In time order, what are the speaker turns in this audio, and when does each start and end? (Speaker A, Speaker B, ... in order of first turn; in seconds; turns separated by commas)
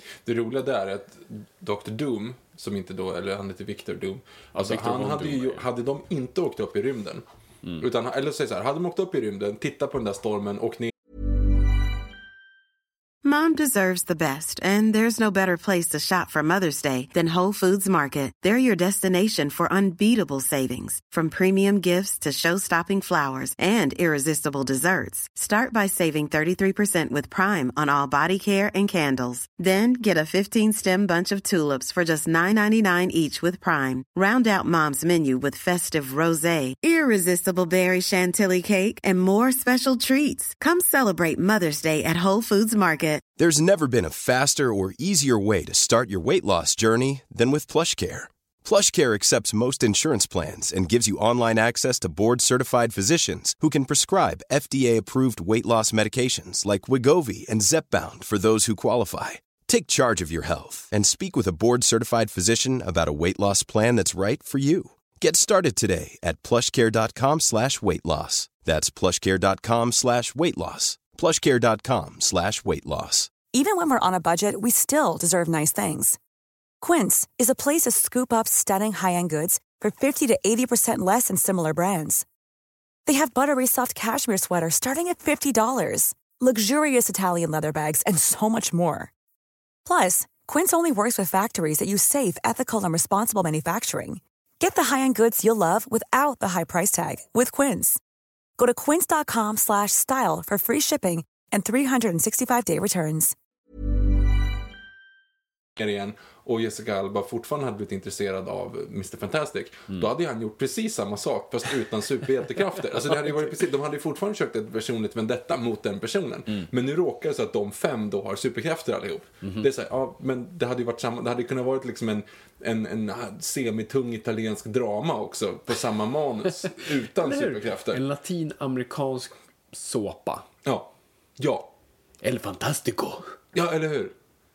Speaker A: 0.2-7.2, Speaker B: 4.5-5.7, Speaker A: 7.8-10.9, Speaker C: 13.2-43.3, Speaker D: 43.4-73.3, Speaker E: 73.5-76.2, Speaker E: 76.8-82.2, Speaker E: 83.1-89.1, Speaker E: 89.9-98.0, Speaker E: 98.6-103.3, Speaker A: 105.8-128.0, Speaker B: 119.4-119.7, Speaker B: 126.7-130.5, Speaker A: 130.6-131.7, Speaker B: 132.2-133.3, Speaker A: 133.5-134.2